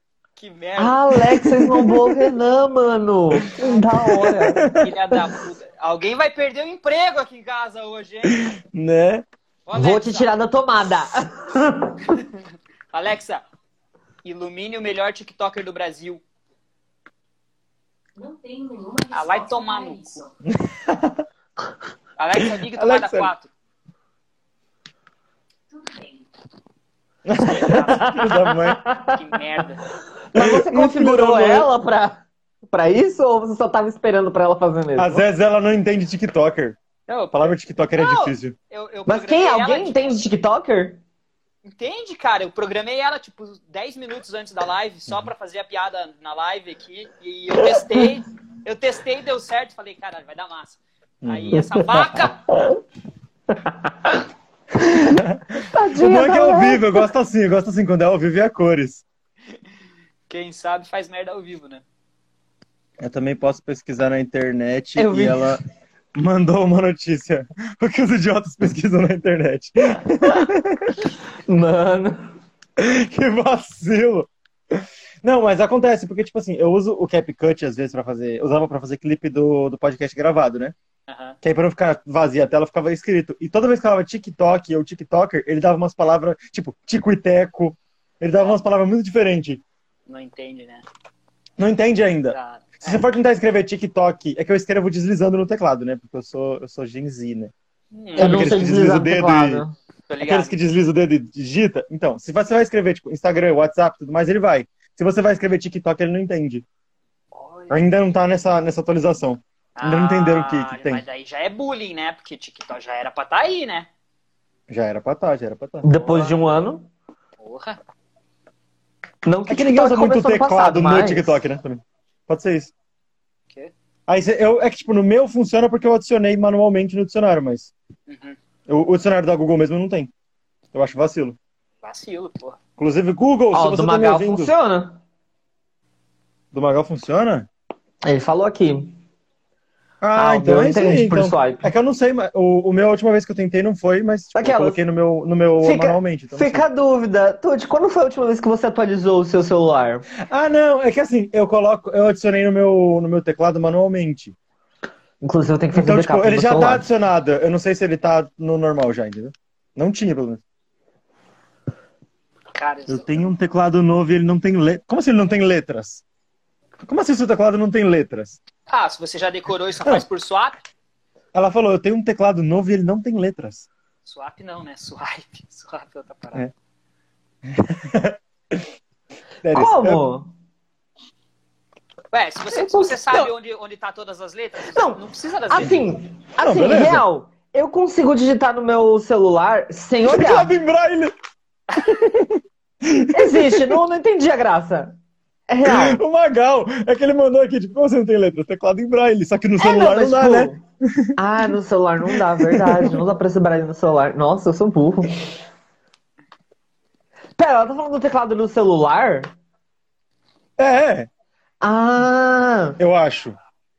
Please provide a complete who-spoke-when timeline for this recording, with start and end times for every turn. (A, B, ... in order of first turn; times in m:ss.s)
0:00.4-0:01.2 A
0:00.8-0:04.7 B
0:01.3-0:02.3 C
0:04.0-0:04.9 C
0:04.8-0:08.5 A
0:08.2-0:09.2 C
0:09.7-0:10.3 A
0:09.7-0:12.2 B
0:12.9-0:13.4 A
0:14.2-0:16.2 A
0:18.2-0:20.3 D
0:19.1-0:20.2 A
0:20.4-0:21.2 C
0:22.2-0:23.5 A
0:22.4-0:23.3 C
0:25.7-0:26.3 D
0:27.2-0:28.8 C
0:27.5-0:28.3 A
0:27.7-0:29.2 B
0:29.0-0:29.9 A
0:30.3-0:35.2 B
0:30.3-0:31.7 C
0:35.0-0:36.8 C
0:37.1-0:40.2 A
0:37.3-0:38.5 C
0:39.1-0:41.0 B
0:41.6-0:52.4 A
0:47.6-0:48.1 B
0:51.2-0:51.8 C
0:52.5-0:52.8 B
0:54.8-0:59.0 C
0:55.7-0:57.0 B
1:00.3-1:01.8 A
1:03.0-1:05.6 C
1:05.0-1:05.6 B
1:06.1-1:11.0 C
1:11.5-1:12.3 B
1:12.8-1:20.7 C
1:21.1-1:21.4 A
1:21.4-1:29.6 C
1:30.1-1:30.8 A
1:31.6-1:37.5 C
1:32.3-1:33.0 A
1:37.9-1:38.6 A
1:38.2-1:39.6 C
1:38.2-1:39.7 B
1:40.1-1:40.5 A
1:40.2-1:46.6 C
1:47.3-1:47.8 A
1:47.7-1:51.0 C
1:49.8-1:53.9 A
1:54.7-1:55.8 C
1:55.8-1:56.9 B
1:55.9-1:56.6 A
1:57.4-1:57.8 A
1:59.2-2:01.4 B
1:59.5-2:02.7 C
2:04.1-2:07.7 C
2:08.1-2:08.4 A
2:08.7-2:10.1 C
2:10.7-2:11.4 C
2:11.8-2:12.6 A
2:12.8-2:14.5 C
2:13.5-2:15.0 B
2:16.5-2:17.5 C
2:18.0-2:19.0 B
2:20.0-2:26.6 C
2:20.1-2:21.6 B
2:24.3-2:24.8 B
2:25.6-2:30.0 B
2:30.3-2:34.3 C
2:35.2-2:36.9 B
2:35.7-2:40.4 C
2:42.5-2:43.2 A
2:42.9-2:46.0 C
2:46.8-2:48.4 C
2:48.7-2:50.6 A
2:51.3-2:53.7 C
2:54.0-2:56.4 A
2:57.4-2:58.6 C
2:59.4-3:00.0 C
2:59.5-3:00.3 B
3:02.1-3:05.7 A
3:02.5-3:03.3 B
3:04.7-3:10.5 B
3:06.4-3:07.0 C
3:10.1-3:11.1 C
3:11.7-3:13.8 C
3:13.1-3:14.9 B
3:15.5-3:16.0 B
3:15.6-3:21.1 C
3:19.6-3:20.6 B
3:21.2-3:25.2 B
3:22.1-3:23.0 C
3:27.4-3:29.3 B
3:30.6-3:31.1 C
3:31.6-3:32.8 B
3:32.8-3:33.4 C